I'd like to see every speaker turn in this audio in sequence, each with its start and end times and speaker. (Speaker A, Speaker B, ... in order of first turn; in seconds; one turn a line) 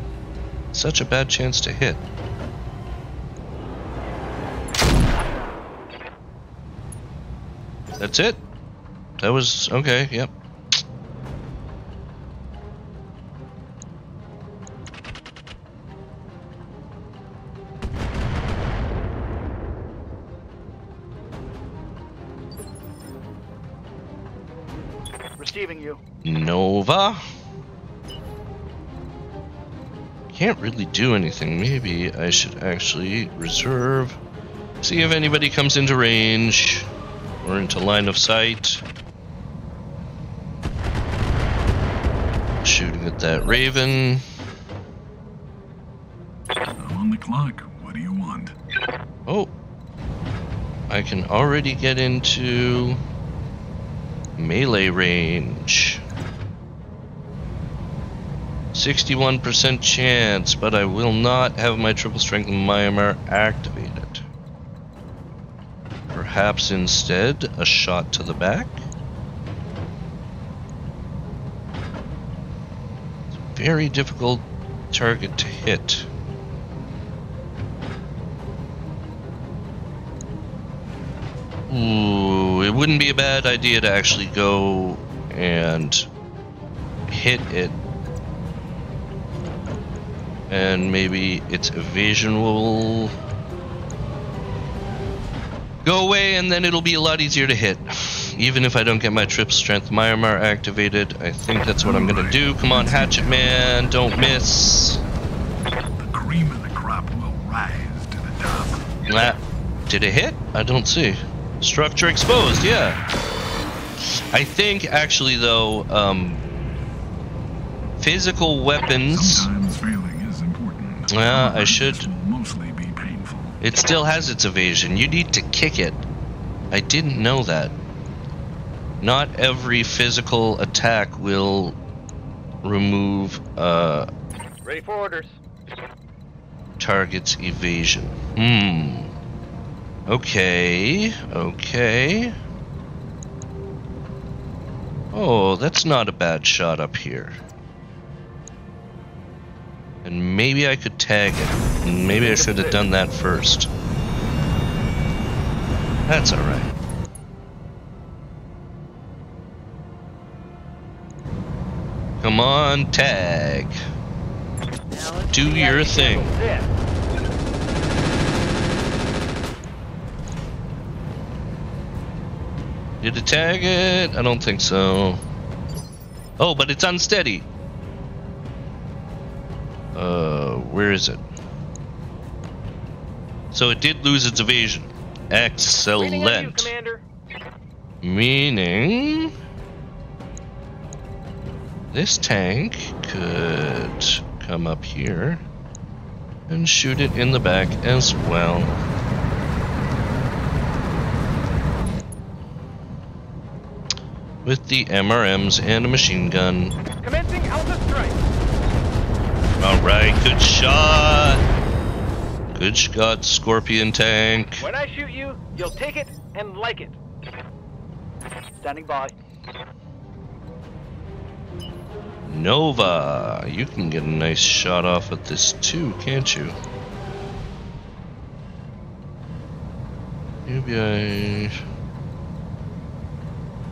Speaker A: 0.7-2.0
Speaker A: 8.0-8.4
Speaker A: 9.2-10.3
Speaker B: 25.4-26.0
Speaker A: 26.2-27.2
Speaker A: 30.3-34.2
Speaker A: 34.8-36.9
Speaker A: 37.4-38.9
Speaker A: 42.6-44.2
Speaker C: 46.8-48.5
Speaker A: 49.3-49.5
Speaker A: 50.9-53.0
Speaker A: 54.4-56.0
Speaker A: 58.7-64.2
Speaker A: 66.1-68.8
Speaker A: 73.3-76.1
Speaker A: 81.7-86.1
Speaker A: 87.1-87.8
Speaker A: 90.5-93.1
Speaker A: 95.8-105.0
Speaker C: 101.8-103.6
Speaker C: 106.0-108.9
Speaker A: 109.1-113.0
Speaker A: 114.0-116.4
Speaker A: 118.0-119.5
Speaker C: 119.1-123.6
Speaker A: 121.1-122.1
Speaker A: 123.6-126.0
Speaker A: 126.7-127.7
Speaker A: 129.0-131.8
Speaker A: 132.6-134.1
Speaker B: 134.7-135.3
Speaker A: 136.8-139.1
Speaker A: 140.1-142.3
Speaker A: 145.1-147.4
Speaker A: 150.0-153.7
Speaker B: 152.2-152.8
Speaker A: 156.1-156.7
Speaker A: 162.2-163.8
Speaker B: 164.9-166.7
Speaker A: 165.3-166.3
Speaker A: 173.0-175.2
Speaker A: 176.4-177.5
Speaker A: 179.9-181.2
Speaker A: 183.5-186.7
Speaker B: 186.0-187.0
Speaker A: 188.0-189.3
Speaker A: 191.9-195.4
Speaker A: 196.5-198.8
Speaker A: 204.4-206.8
Speaker B: 207.0-208.2
Speaker A: 209.6-211.4
Speaker A: 212.5-214.7
Speaker B: 214.6-217.0
Speaker B: 218.6-219.1
Speaker A: 222.3-226.6
Speaker A: 230.5-231.6